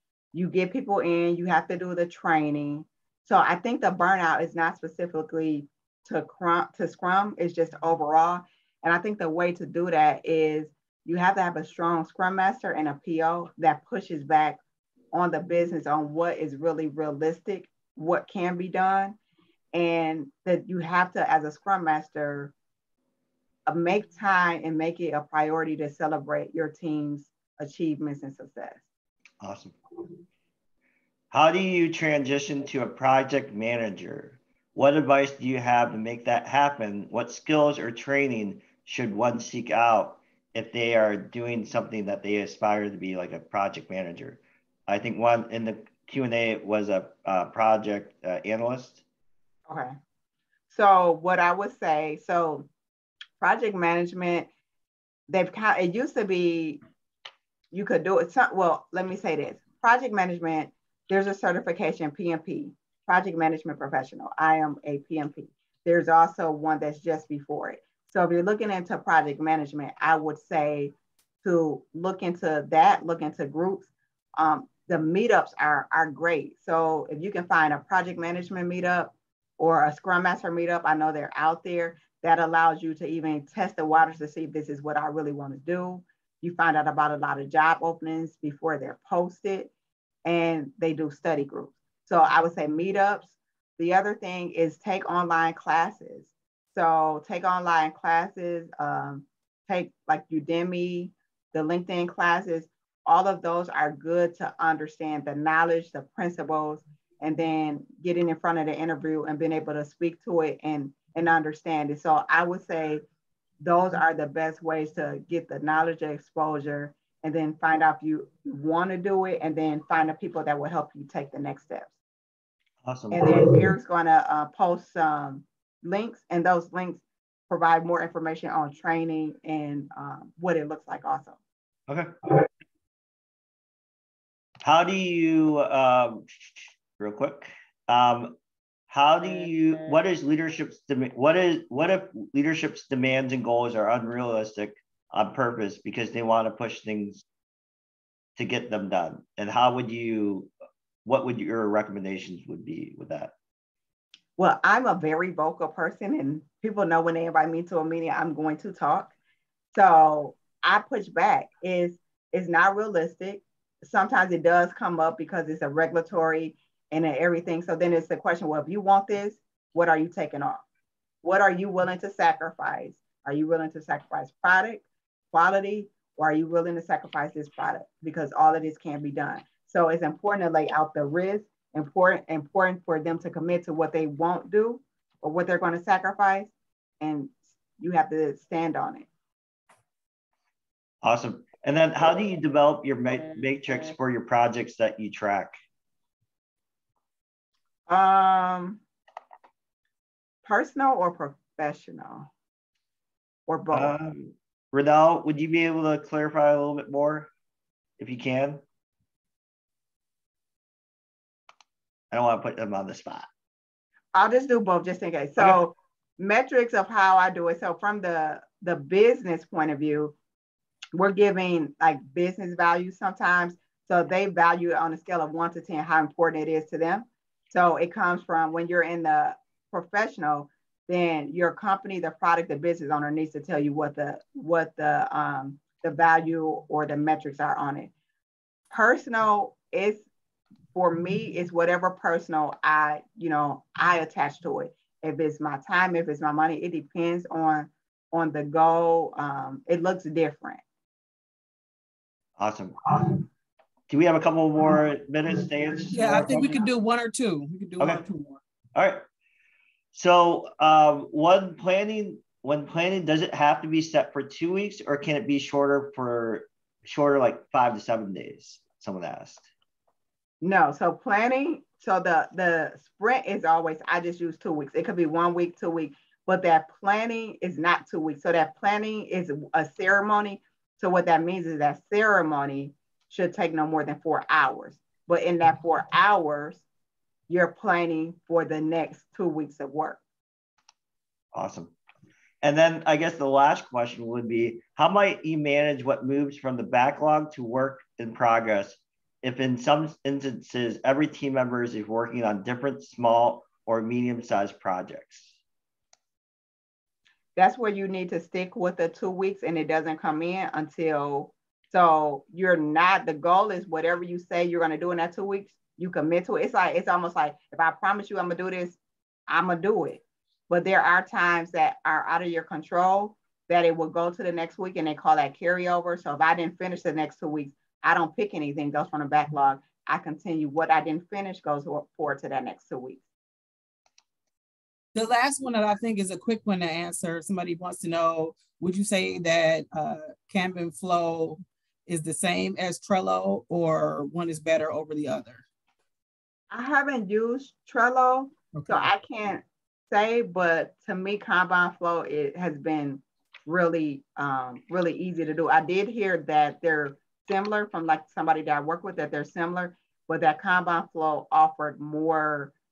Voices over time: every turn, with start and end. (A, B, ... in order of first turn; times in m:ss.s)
0:00.3-0:14.6 A
0:15.1-0:19.2 A
0:19.7-0:22.5 A
0:23.7-0:28.8 A
0:29.4-0:29.8 B
0:31.3-0:49.0 B
0:49.7-0:49.9 A
0:50.7-0:52.7 A
0:53.4-0:54.5 A
0:55.3-0:56.8 A
0:57.7-1:29.7 A
1:30.2-1:53.0 A
1:53.6-2:01.9 A
2:02.8-2:03.4 B
2:03.1-2:11.4 A
2:11.9-2:12.1 B
2:14.6-2:18.3 B
2:18.9-2:27.2 B
2:28.4-2:30.5 B
2:31.0-2:33.3 B
2:34.4-2:39.1 A
2:39.7-2:50.6 A
2:51.2-3:09.1 A
3:11.0-3:15.5 B
3:17.9-3:18.8 A
3:20.4-3:22.3 A
3:23.5-3:24.0 A
3:23.7-3:27.3 B
3:28.0-3:28.6 B
3:32.1-3:33.3 B
3:34.1-3:40.1 A
3:40.9-3:57.9 A
3:58.7-4:00.0 A
4:00.7-4:10.6 A
4:12.4-4:12.8 B
4:13.9-4:16.6 B
4:15.9-4:18.4 C
4:18.7-4:19.0 B
4:19.9-4:29.5 B
4:30.4-4:46.6 A
4:47.3-4:50.0 A
4:51.3-4:51.7 B
4:52.4-5:05.3 B
5:07.4-5:33.0 A
5:34.9-5:45.4 C
5:46.5-6:02.5 A
5:48.5-5:48.9 C